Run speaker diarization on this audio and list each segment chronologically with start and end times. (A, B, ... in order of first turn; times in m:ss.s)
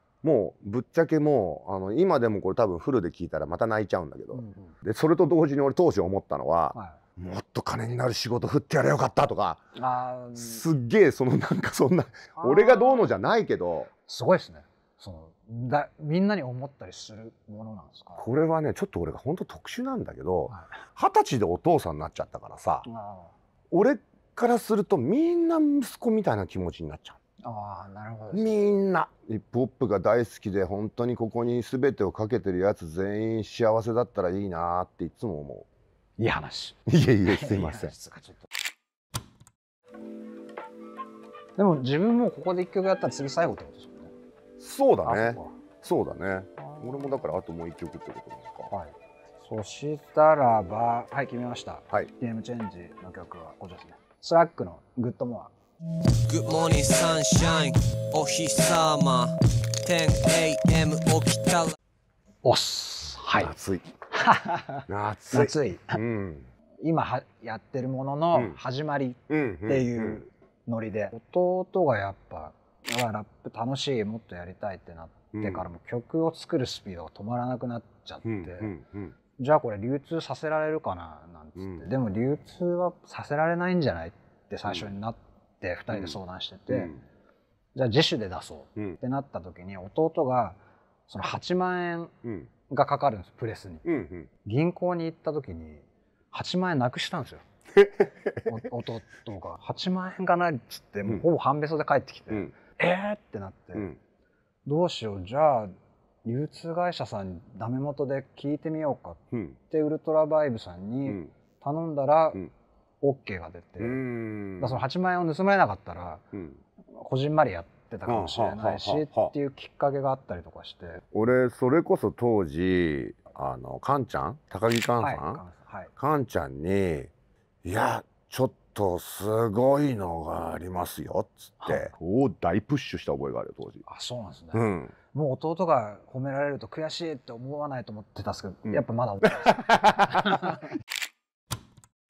0:00.2-0:09.6 A
0:04.3-0:04.8 B
0:09.8-0:10.6 B
0:10.4-0:13.9 A
0:12.4-0:13.1 B
0:14.1-0:18.2 B
0:18.2-0:22.9 A
0:22.8-0:23.3 B
0:23.7-0:27.2 A
0:27.4-0:28.6 B
0:28.3-0:35.7 A
0:36.2-0:38.5 B
0:36.9-0:37.9 A
0:41.6-0:44.1 B
0:44.6-0:48.7 A
0:45.1-0:45.6 B
0:46.6-0:47.1 B
0:48.7-0:55.5 B
0:56.3-1:01.8 C
1:02.4-1:03.5 B
1:03.4-1:03.9 A
1:04.1-1:06.0 B
1:04.9-1:06.5 A
1:06.8-1:18.7 B
1:09.3-1:10.2 A
1:15.3-1:15.7 A
1:18.2-1:19.2 A
1:19.4-1:26.9 B
1:21.6-1:21.9 A
1:25.9-1:26.2 A
1:26.7-1:27.0 A
1:27.8-1:32.1 B
1:32.2-1:32.5 A
1:32.7-1:33.8 B
1:33.8-1:34.3 A
1:34.4-1:37.4 B
1:37.8-1:38.6 A
1:38.4-1:43.9 B
1:44.7-1:45.7 B
1:46.2-1:52.4 B
1:49.3-1:49.6 A
1:51.1-1:51.3 A
1:53.0-1:54.0 B
1:53.8-1:54.9 A
1:54.6-1:56.2 B
1:56.3-1:56.6 A
1:56.9-2:01.0 B
1:58.1-1:59.3 A
2:01.1-2:05.4 A
2:05.0-2:05.9 B
2:06.0-2:07.1 A
2:07.6-2:13.8 A
2:13.9-2:20.6 B
2:14.5-2:14.9 A
2:18.7-2:20.4 A